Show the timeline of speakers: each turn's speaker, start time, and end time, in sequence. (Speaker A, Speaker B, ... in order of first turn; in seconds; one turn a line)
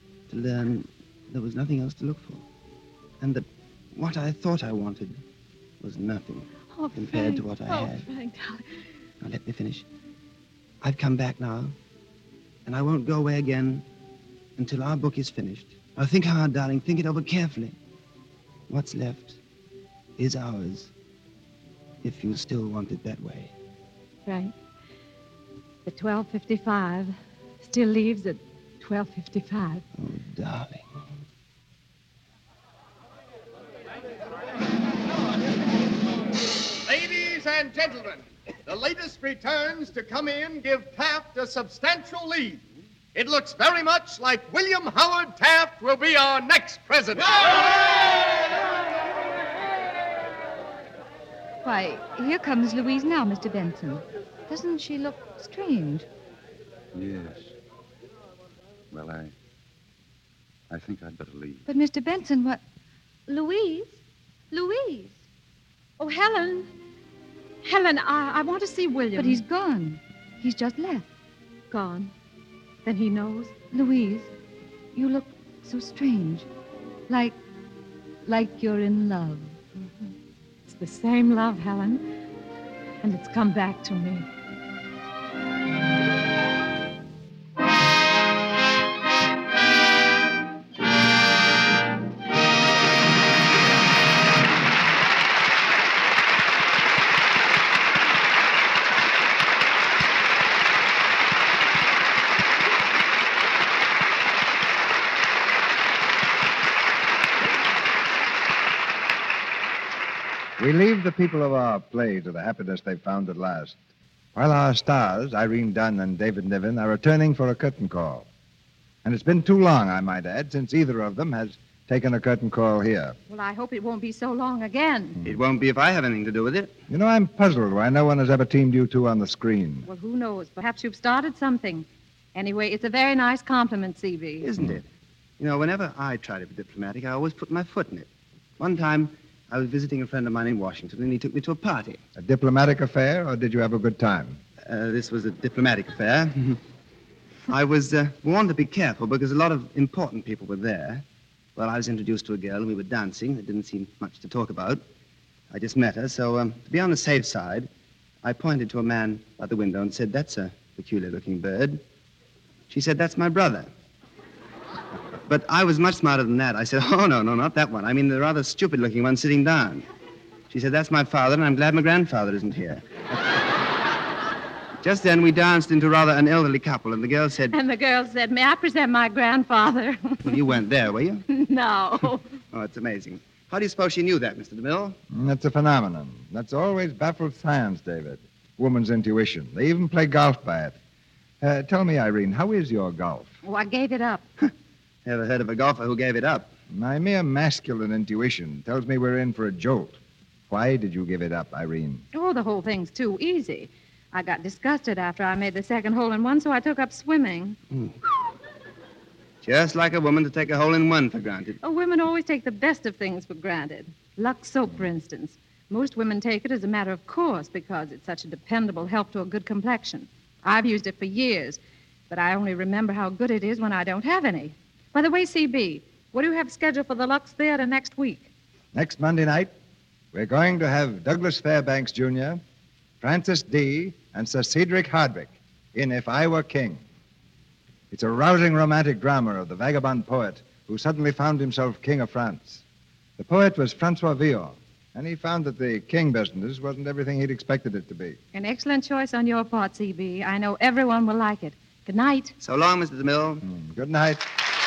Speaker A: 0.3-2.5
Speaker A: 3.2-5.2
Speaker A: 5.8-8.1
Speaker B: 6.7-8.7
Speaker A: 9.2-9.9
Speaker A: 10.8-11.8
Speaker A: 12.7-13.8
Speaker A: 14.6-17.8
Speaker A: 18.7-19.4
Speaker A: 20.2-20.9
Speaker A: 22.0-23.5
Speaker B: 24.3-24.5
Speaker B: 25.9-29.8
Speaker A: 30.0-30.8
Speaker C: 36.8-42.6
Speaker C: 43.1-47.8
Speaker D: 51.6-56.1
Speaker E: 56.9-57.5
Speaker E: 58.9-59.3
Speaker E: 60.7-61.6
Speaker D: 61.7-62.6
Speaker D: 63.3-64.0
Speaker D: 64.5-65.2
Speaker B: 66.0-66.7
Speaker B: 67.6-69.4
Speaker D: 69.2-71.1
Speaker B: 71.7-72.1
Speaker B: 72.8-73.6
Speaker D: 73.7-74.3
Speaker D: 75.0-76.5
Speaker D: 77.1-77.4
Speaker D: 78.2-79.6
Speaker B: 80.7-82.0
Speaker B: 83.0-84.3
Speaker F: 110.6-113.8
Speaker F: 114.3-118.3
Speaker F: 119.0-123.2
Speaker B: 123.3-125.2
Speaker A: 125.2-126.8
Speaker F: 126.9-129.9
Speaker B: 129.9-134.5
Speaker A: 134.4-134.8
Speaker A: 135.4-142.0
Speaker F: 142.2-144.4
Speaker A: 144.7-146.6
Speaker A: 147.5-151.0
Speaker A: 151.6-154.8
Speaker A: 155.5-157.7
Speaker A: 158.2-161.8
Speaker A: 162.7-163.7
Speaker A: 165.3-169.8
Speaker A: 170.5-172.8
Speaker A: 174.8-177.6
Speaker B: 177.5-180.4
Speaker A: 180.3-181.2
Speaker B: 181.3-182.3
Speaker A: 182.5-185.0
Speaker F: 185.1-190.8
Speaker F: 191.4-193.3
Speaker B: 193.4-194.2
Speaker A: 195.1-196.5
Speaker F: 196.7-202.1
Speaker B: 202.1-207.6
Speaker A: 209.4-211.6
Speaker B: 211.6-221.6
Speaker B: 222.1-228.3
Speaker F: 228.7-229.5
Speaker F: 230.1-232.4
Speaker F: 233.0-236.8
Speaker F: 237.9-242.6
Speaker F: 243.2-248.2
Speaker B: 248.3-252.3
Speaker A: 252.4-253.4
Speaker F: 253.4-254.2